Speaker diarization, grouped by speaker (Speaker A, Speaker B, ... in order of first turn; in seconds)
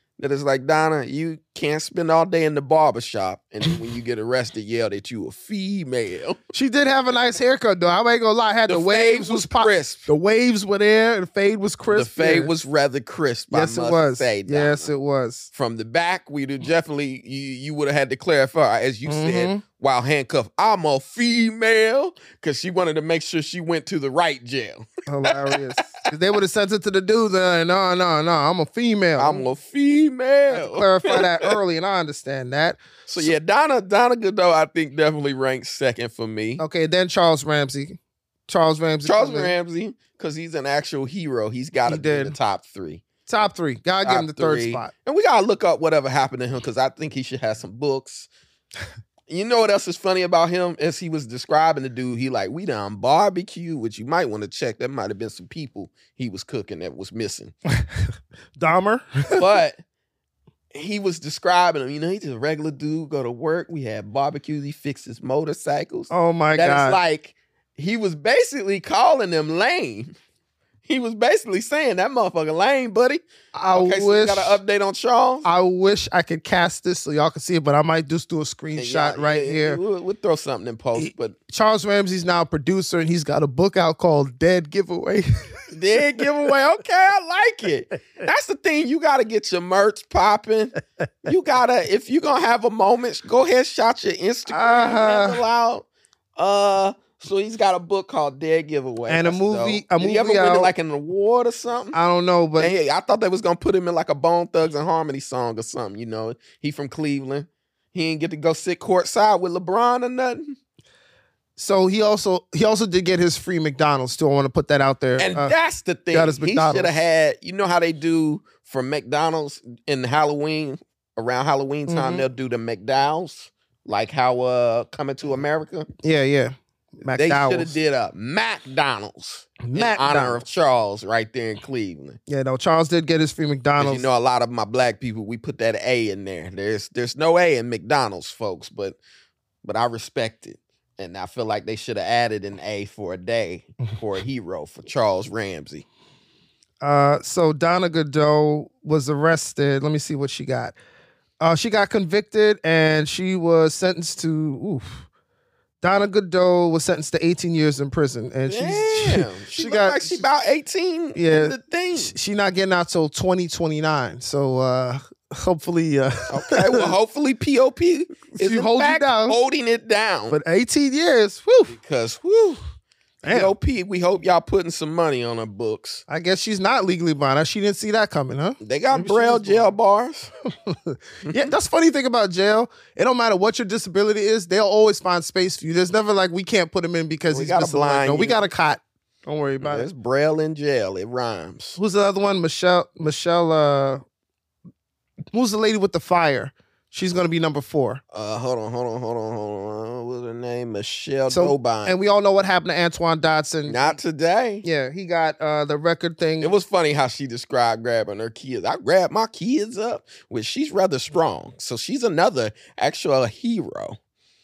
Speaker A: 0.2-6.4, 8.7-10.0, 11.9-14.9, 15.5-26.0, 29.2-31.5, 33.1-36.6, 39.0-43.0, 44.0-48.3, 49.3-57.5, 59.3-59.8, 60.7-70.2, 70.8-75.5, 78.8-81.3, 85.7-90.7, 91.2-102.0, 102.6-110.5, 115.2-125.9, 127.1-132.2, 133.8-139.0, 139.6-145.8, 158.5-162.1, 166.3-170.4, 171.7-172.6, 173.2-176.0, 178.6-180.3, 181.2-181.5, 187.3-188.4, 189.6-191.8, 198.1-201.9, 203.7-204.6, 206.4-214.0
Speaker B: 6.5-12.5, 13.5-15.5, 19.1-19.6, 25.1-29.4, 30.5-33.3, 36.6-39.5, 41.9-42.4, 43.3-44.9, 58.6-59.4, 66.1-67.0, 73.5-74.6, 75.4-79.8, 81.0-85.4, 94.5-95.4, 99.1-100.7, 101.9-102.7, 111.6-115.5, 116.1-116.9, 121.9-122.2, 126.0-127.7, 129.6-130.4, 132.3-134.1, 146.8-150.8, 151.4-155.1, 155.8-160.2, 161.1-166.9, 168.3-169.4, 170.3-171.7, 173.2-173.5, 176.1-179.7, 180.7-189.9, 191.8-194.0, 195.3-198.0, 201.3-203.9, 204.6-206.5